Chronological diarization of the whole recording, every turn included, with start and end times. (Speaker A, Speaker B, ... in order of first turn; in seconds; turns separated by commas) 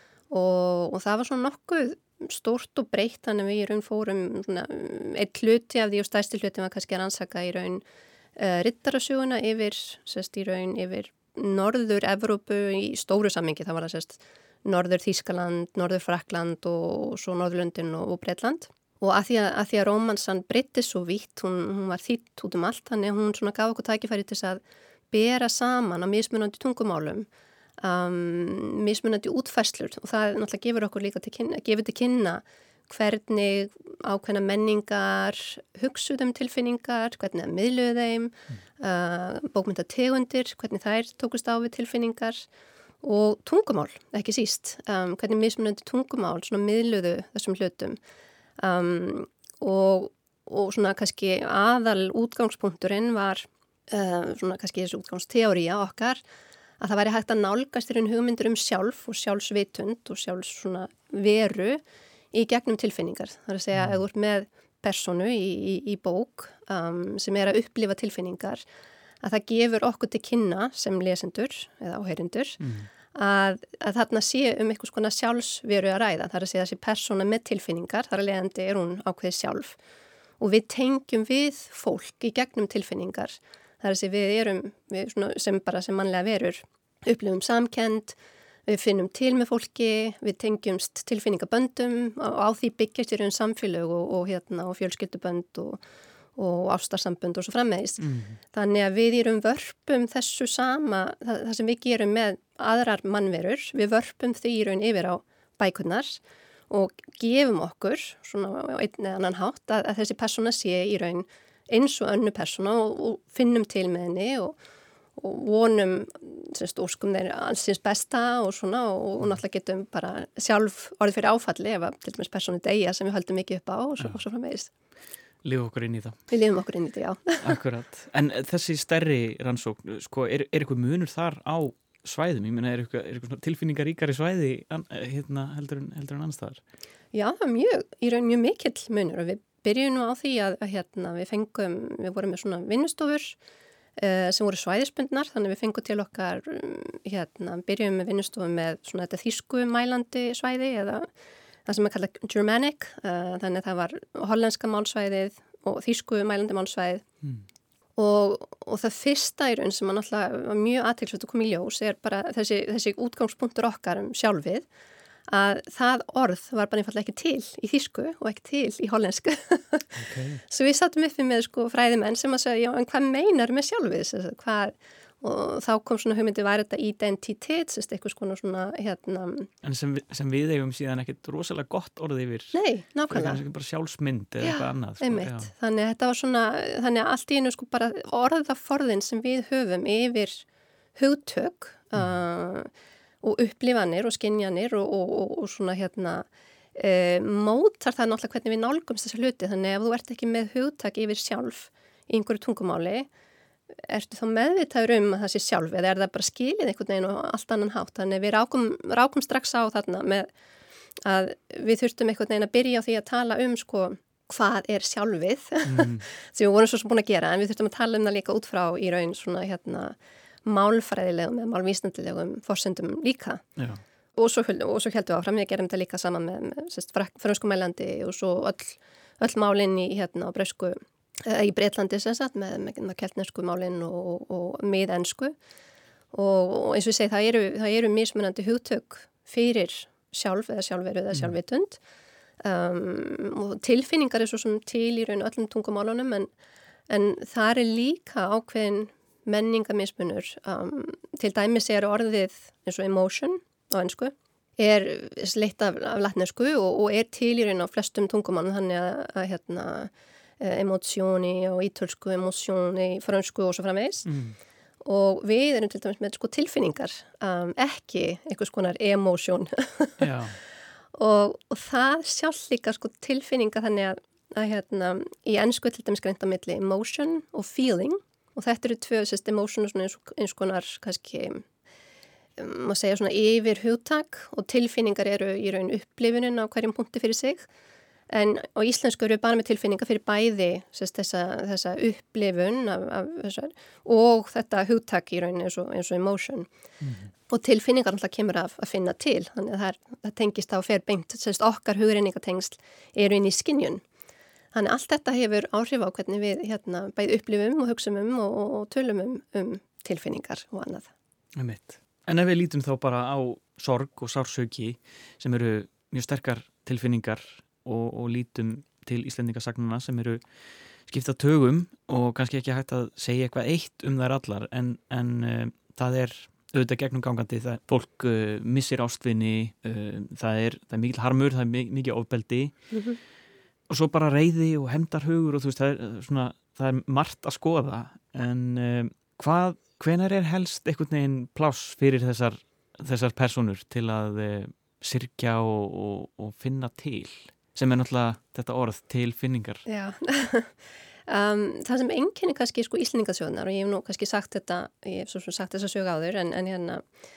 Speaker A: 0.3-7.8, Speaker A: 8.4-27.3, Speaker A: 27.8-42.5, Speaker A: 43.0-48.0, Speaker A: 48.6-56.2, Speaker A: 56.8-68.6, Speaker B: 63.7-64.0, Speaker A: 69.2-72.6, Speaker B: 72.6-72.9, Speaker A: 73.1-79.8, Speaker A: 80.4-95.8, Speaker A: 96.4-114.5, Speaker B: 98.0-98.4, Speaker A: 115.2-124.7, Speaker B: 125.4-126.2, Speaker A: 126.3-127.6, Speaker B: 127.4-136.6, Speaker A: 137.1-143.4, Speaker A: 144.0-151.1, Speaker A: 151.7-157.0, Speaker A: 158.0-164.7, Speaker A: 165.3-169.9, Speaker B: 169.9-170.4, Speaker A: 170.5-179.5, Speaker B: 179.6-182.6, Speaker A: 182.5-183.4, Speaker B: 183.1-185.5, Speaker A: 184.4-190.4, Speaker A: 190.9-192.7, Speaker A: 193.2-203.1, Speaker A: 203.9-210.3, Speaker A: 211.1-223.4, Speaker B: 215.7-216.0, Speaker B: 223.6-223.8, Speaker A: 224.2-235.3, Speaker A: 236.1-241.8, Speaker A: 242.4-246.3, Speaker A: 246.9-264.1, Speaker B: 264.1-264.4, Speaker A: 264.8-270.1, Speaker B: 270.0-270.4, Speaker A: 270.9-281.4, Speaker A: 282.4-287.4, Speaker A: 288.1-296.5, Speaker B: 296.8-297.1, Speaker A: 297.3-303.8, Speaker A: 304.5-310.9, Speaker B: 311.4-320.2, Speaker B: 320.8-332.6, Speaker A: 332.7-333.0, Speaker B: 333.7-349.6, Speaker A: 349.7-350.5, Speaker A: 351.1-356.8